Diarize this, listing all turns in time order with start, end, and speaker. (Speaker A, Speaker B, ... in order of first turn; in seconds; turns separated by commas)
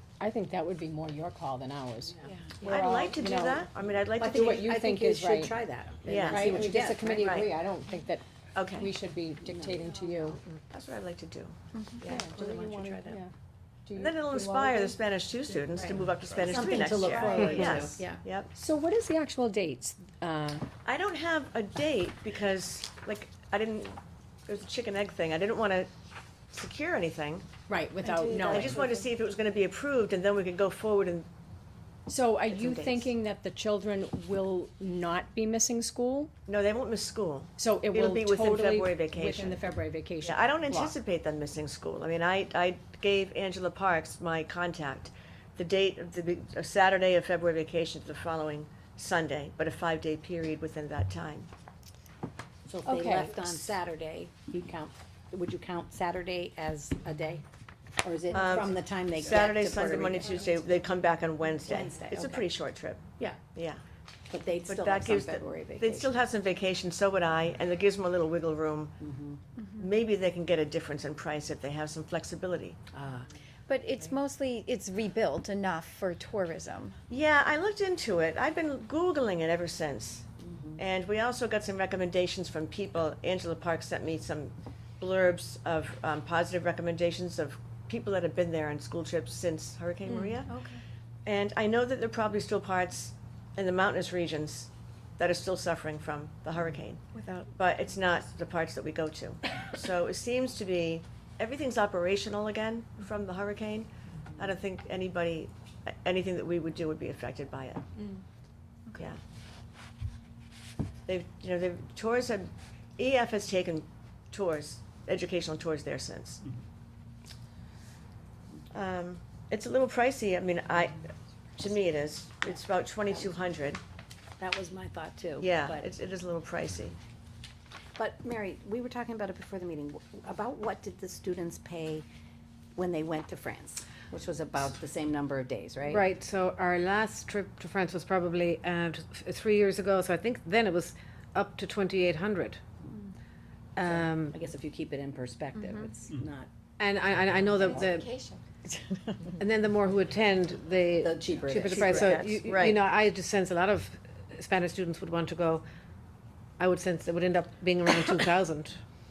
Speaker A: 0.2-3.7, Speaker B: 2.6-3.2, Speaker C: 2.6-4.6, Speaker B: 4.2-7.4, Speaker A: 4.2-5.5, Speaker C: 6.0-7.5, Speaker A: 6.3-10.4, Speaker C: 8.5-8.9, Speaker B: 9.4-9.8, Speaker C: 10.7-12.7, Speaker D: 11.7-12.1, Speaker A: 12.0-13.3, Speaker A: 13.8-15.0, Speaker C: 13.9-18.5, Speaker B: 16.4-18.2, Speaker A: 18.5-20.6, Speaker C: 20.8-25.9, Speaker C: 26.5-27.5, Speaker A: 27.7-28.9, Speaker B: 28.2-28.6, Speaker C: 28.2-31.3, Speaker A: 32.1-36.3, Speaker C: 32.5-33.1, Speaker C: 36.5-39.6, Speaker A: 37.6-40.9, Speaker C: 40.2-51.5, Speaker B: 52.7-57.4, Speaker A: 52.8-53.5, Speaker B: 58.0-60.4, Speaker C: 58.3-63.8, Speaker B: 61.6-62.5, Speaker B: 64.3-66.2, Speaker C: 64.7-69.0, Speaker B: 69.0-69.4, Speaker C: 69.8-72.8, Speaker B: 72.9-73.3, Speaker D: 73.7-77.0, Speaker C: 77.1-90.5, Speaker B: 80.4-80.8, Speaker D: 90.5-90.8, Speaker C: 91.2-107.8, Speaker D: 97.1-97.4, Speaker C: 111.0-116.4, Speaker C: 118.7-123.8, Speaker B: 124.4-125.9, Speaker C: 125.4-127.0, Speaker B: 128.0-132.0, Speaker B: 132.7-136.1, Speaker E: 135.9-142.6, Speaker E: 143.8-144.3, Speaker B: 143.8-146.5, Speaker D: 145.6-145.9, Speaker E: 146.8-148.1, Speaker D: 147.5-148.4, Speaker B: 147.6-147.9, Speaker B: 148.6-149.3, Speaker E: 149.4-155.6, Speaker B: 151.0-152.2, Speaker C: 151.7-152.8, Speaker E: 156.6-158.8